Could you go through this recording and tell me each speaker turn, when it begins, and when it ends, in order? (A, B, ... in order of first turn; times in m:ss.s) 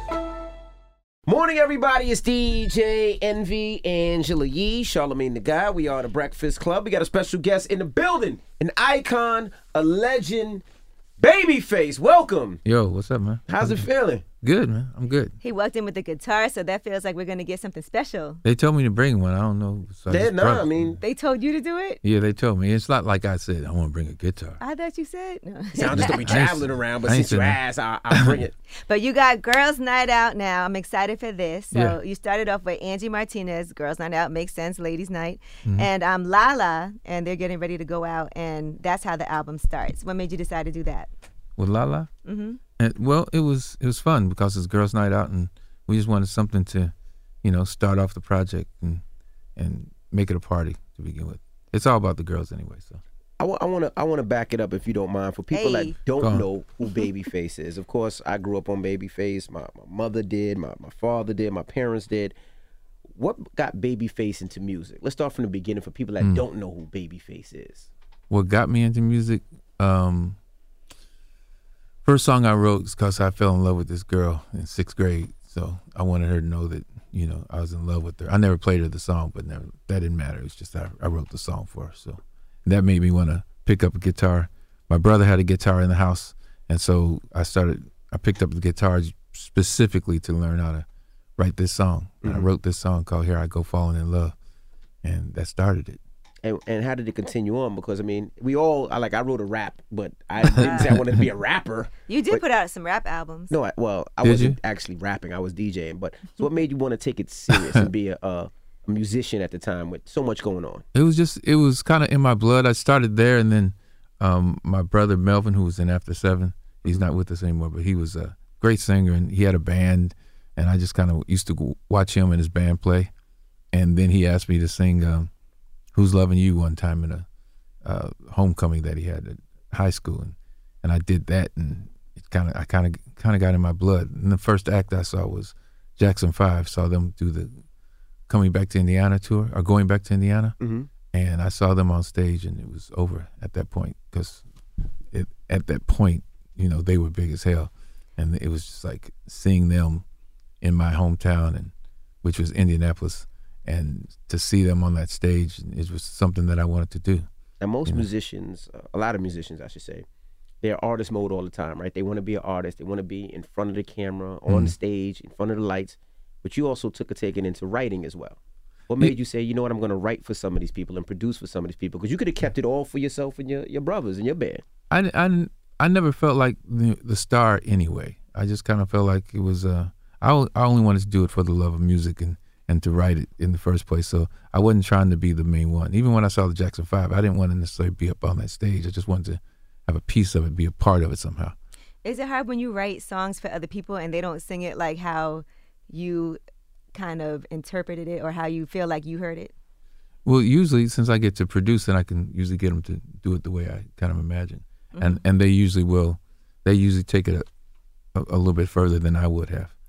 0:01.2-0:10.6 A
0:11.2-0:12.6 A
0:12.6-0:13.9 B
0:13.5-0:14.2 A
0:14.4-0:15.3 B
0:15.4-0:18.4 C
0:18.4-0:21.0 B
0:20.1-0:21.0 A
0:21.0-0:22.0 C
0:22.0-0:24.6 B
0:24.6-0:26.4 C
0:25.7-0:28.5 A
0:25.9-0:28.4 B
0:28.9-0:41.1 C
0:31.7-0:32.0 B
0:41.6-0:42.1 B
0:42.2-0:42.6 C
0:42.8-0:49.0 B
0:49.6-0:53.0 B
0:53.4-1:02.4 A
0:55.5-0:56.0 C
0:56.2-0:56.4 B
1:03.1-1:07.9 A
1:06.2-1:06.4 B
1:08.3-1:10.4 B
1:12.0-1:30.8 B
1:31.4-1:34.3 B
1:35.0-1:36.0 B
1:36.4-1:42.4 A
1:40.5-1:41.2 B
1:40.6-1:41.0 C
1:42.1-1:43.5 C
1:43.5-1:50.8 A
1:44.2-1:44.6 B
1:47.5-1:47.8 B
1:50.9-2:03.1 B
2:03.7-2:05.3 B
2:05.9-2:07.3 B
2:07.8-2:17.6 B
2:18.3-2:20.6 B
2:20.6-2:20.9 A
2:21.1-2:24.4 B
2:25.1-2:30.0 B
2:30.6-2:31.7 B
2:32.2-2:37.3 B
2:37.6-2:40.0 A
2:40.6-2:54.6 A
2:44.5-2:44.7 B
2:54.9-3:11.6 B
3:12.0-3:16.4 C
3:16.9-3:19.5 C
3:20.2-3:27.5 B
3:24.9-3:25.2 C
3:28.1-3:29.7 B